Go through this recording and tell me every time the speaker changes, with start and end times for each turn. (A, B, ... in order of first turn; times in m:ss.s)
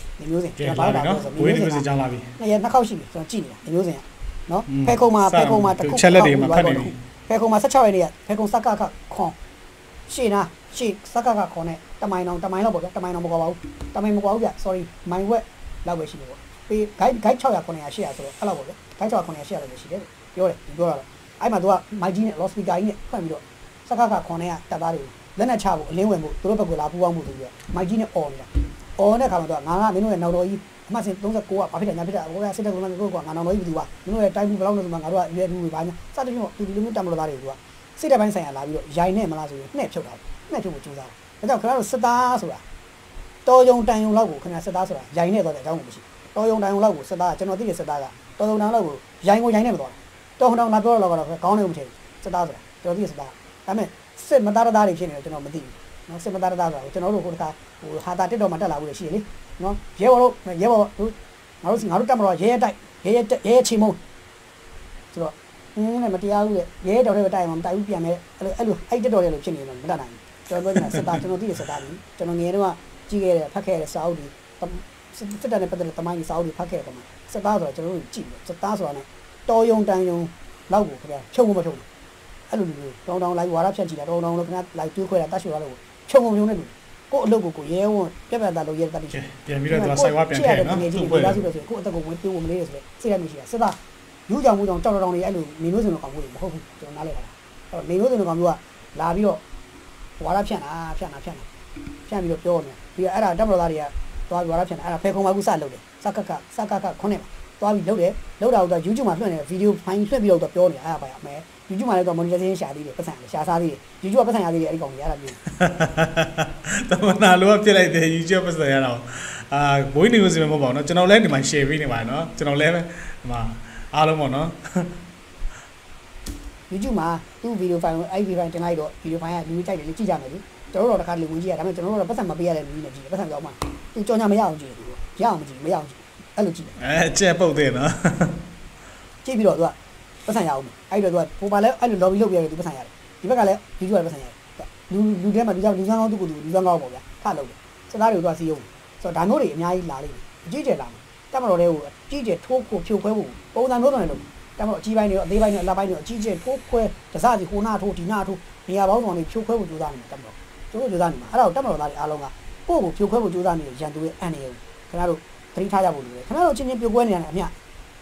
0:00.2-0:01.8 A
0:00.6-0:02.3 B
0:02.4-0:09.4 A
0:04.7-0:07.0 B
0:10.1-0:42.6 A
0:43.4-1:04.0 A
1:05.1-1:21.8 A
1:22.5-1:39.4 A
1:29.1-1:31.4 B
1:40.2-1:41.5 A
1:42.1-1:55.4 A
1:55.6-2:04.9 B
2:06.7-2:16.7 A
2:16.8-2:18.4 B
2:19.2-2:47.5 A